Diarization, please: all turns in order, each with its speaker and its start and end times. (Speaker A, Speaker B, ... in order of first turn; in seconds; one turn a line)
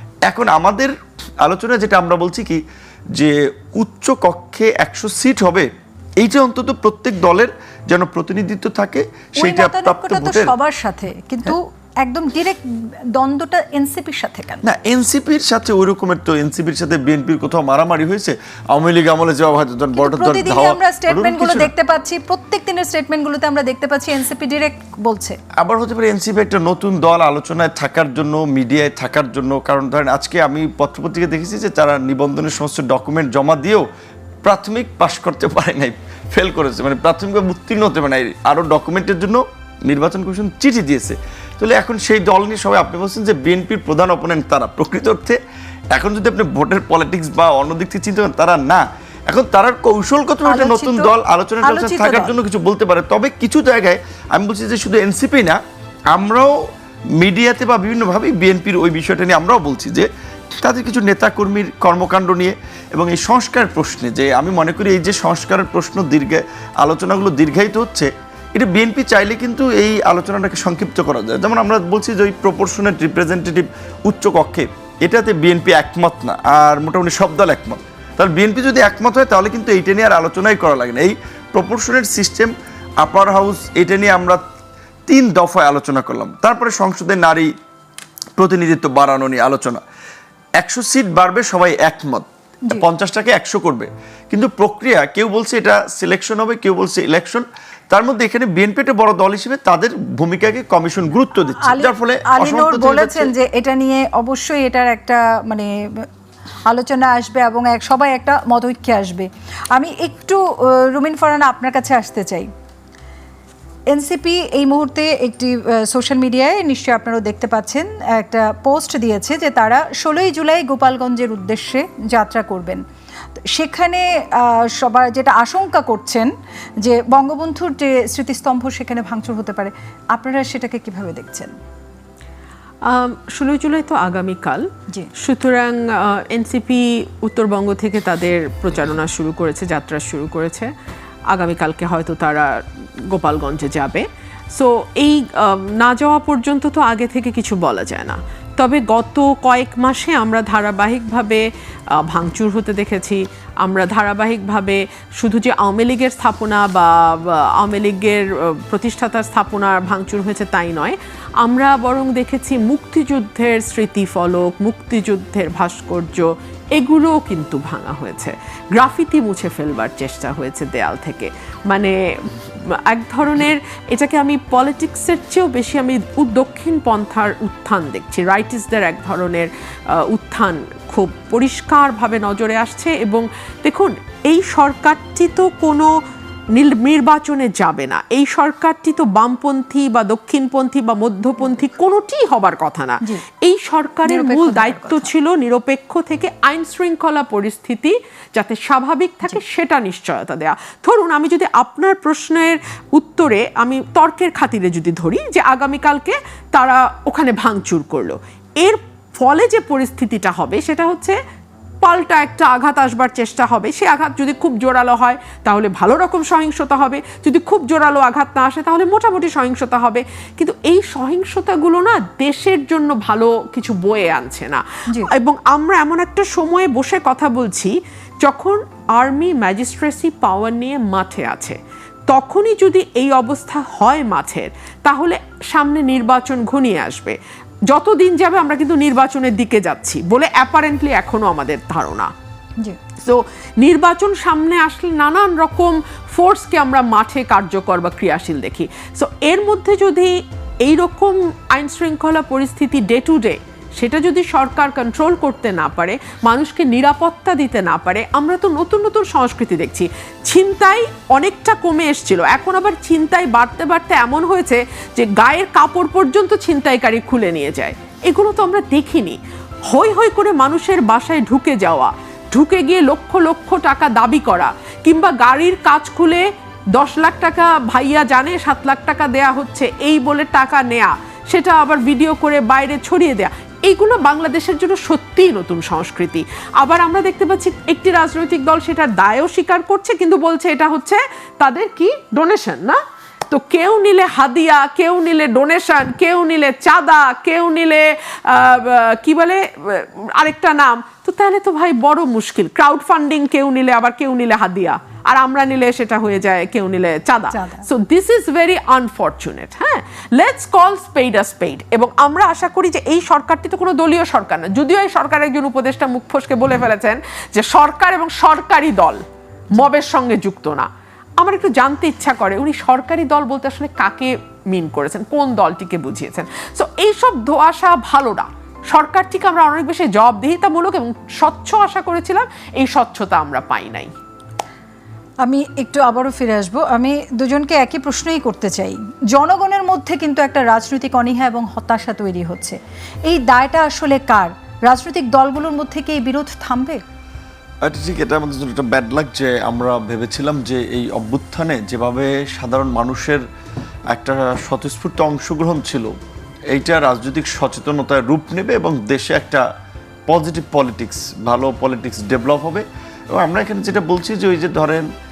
Speaker A: 0.2-2.6
Speaker A: 3.1-5.7
Speaker A: 6.2-10.5
Speaker B: 9.4-12.6
Speaker B: 13.1-14.6
Speaker A: 14.6-21.7
Speaker B: 19.9-25.4
Speaker A: 25.6-33.9
Speaker A: 34.4-45.4
Speaker A: 45.9-55.6
Speaker B: 50.4-51.1
Speaker B: 51.6-52.4
Speaker A: 56.1-56.5
Speaker A: 57.2-60.1
Speaker A: 60.6-84.4
Speaker A: 85.1-87.5
Speaker A: 88.4-89.8
Speaker A: 90.6-103.3
Speaker B: 101.4-105.7
Speaker B: 106.7-112.5
Speaker B: 113.9-122.8
Speaker B: 123.5-126.3
Speaker B: 126.8-131.5
Speaker C: 132.8-140.7
Speaker C: 141.3-151.4
Speaker C: 152.0-185.9
Speaker C: 186.5-211.2
Speaker B: 194.0-195.1
Speaker C: 211.8-231.6
Speaker C: 232.1-237.2
Speaker C: 237.7-242.1
Speaker C: 243.0-269.2
Speaker C: 269.7-292.8
Speaker C: 293.3-319.0
Speaker B: 307.3-307.6
Speaker C: 319.5-320.7
Speaker C: 321.2-333.9
Speaker B: 335.2-346.8
Speaker A: 347.6-353.2
Speaker A: 353.9-355.9
Speaker A: 356.5-359.4
Speaker A: 360.1-364.9